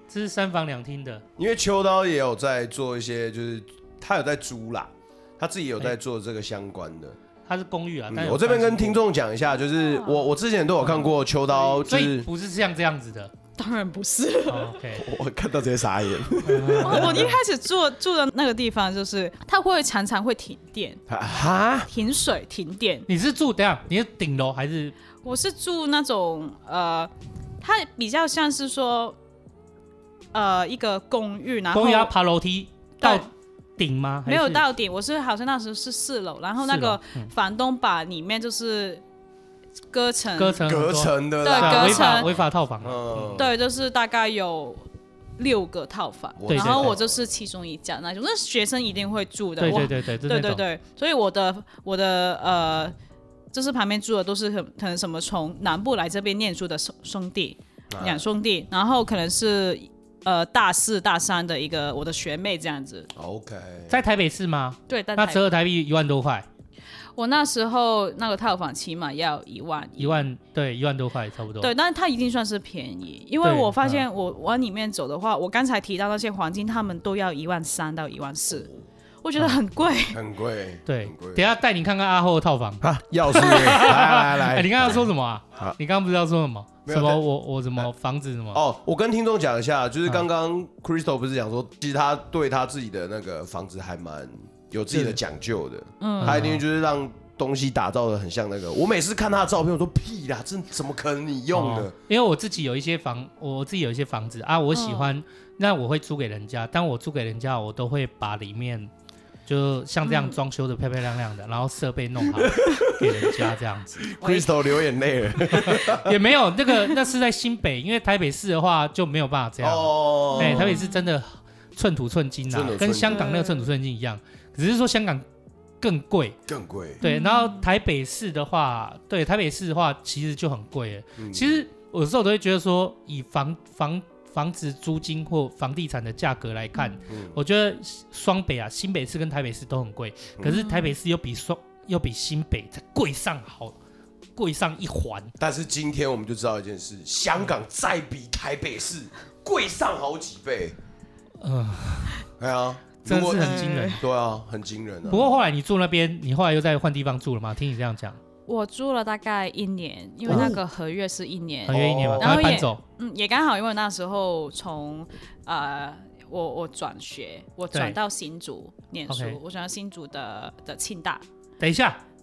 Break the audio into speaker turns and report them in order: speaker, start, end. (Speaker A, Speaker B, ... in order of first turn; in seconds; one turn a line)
Speaker A: 0.1-1.2
Speaker B: 1.4-7.2
Speaker A: 7.5-9.0
Speaker B: 8.1-12.3
Speaker C: 9.8-10.3
Speaker A: 11.8-13.3
Speaker C: 13.6-14.8
Speaker A: 14.5-15.0
Speaker B: 15.0-17.3
Speaker A: 16.4-17.4
Speaker C: 16.8-21.0
Speaker B: 21.1-21.9
Speaker C: 21.9-23.1
Speaker A: 23.1-24.9
Speaker C: 25.2-29.2
Speaker C: 30.3-32.1
Speaker A: 31.7-34.6
Speaker C: 33.0-33.3
Speaker C: 34.2-39.0
Speaker A: 36.6-37.3
Speaker C: 39.9-40.6
Speaker A: 40.4-43.4
Speaker B: 40.6-43.5
Speaker C: 41.4-42.3
Speaker C: 43.4-52.9
Speaker B: 46.4-47.2
Speaker A: 46.5-46.9
Speaker A: 49.6-50.6
Speaker C: 53.5-63.1
Speaker B: 57.9-58.2
Speaker B: 63.1-64.0
Speaker A: 63.9-66.5
Speaker C: 64.9-65.4
Speaker C: 67.2-70.3
Speaker A: 70.0-71.7
Speaker C: 71.6-78.7
Speaker A: 73.4-74.0
Speaker C: 79.2-80.2
Speaker B: 80.1-81.4
Speaker A: 80.8-88.6
Speaker B: 82.8-85.8
Speaker B: 86.8-87.2
Speaker B: 88.5-101.9
Speaker A: 94.9-95.2
Speaker C: 96.0-96.5
Speaker A: 96.2-96.6
Speaker A: 101.5-108.9
Speaker C: 104.7-105.1
Speaker A: 109.5-114.0
Speaker C: 110.0-110.3
Speaker B: 112.3-113.1
Speaker B: 114.0-116.2
Speaker C: 114.0-114.7
Speaker A: 115.5-125.2
Speaker B: 119.6-120.7
Speaker C: 120.3-121.1
Speaker B: 122.5-123.3
Speaker C: 123.0-123.7
Speaker A: 125.8-126.4
Speaker B: 126.5-127.0
Speaker A: 127.0-143.8
Speaker C: 127.0-127.7
Speaker B: 131.2-131.6
Speaker B: 137.1-137.3
Speaker C: 140.4-140.9
Speaker A: 144.3-145.3
Speaker B: 145.4-150.8
Speaker A: 151.4-152.2
Speaker B: 152.4-155.3
Speaker A: 153.0-154.0
Speaker C: 153.3-154.0
Speaker A: 155.1-158.2
Speaker C: 158.5-171.2
Speaker A: 160.3-160.6
Speaker B: 160.3-160.6
Speaker A: 161.7-162.8
Speaker B: 161.7-162.7
Speaker A: 167.7-168.0
Speaker A: 169.1-169.4
Speaker A: 171.6-172.0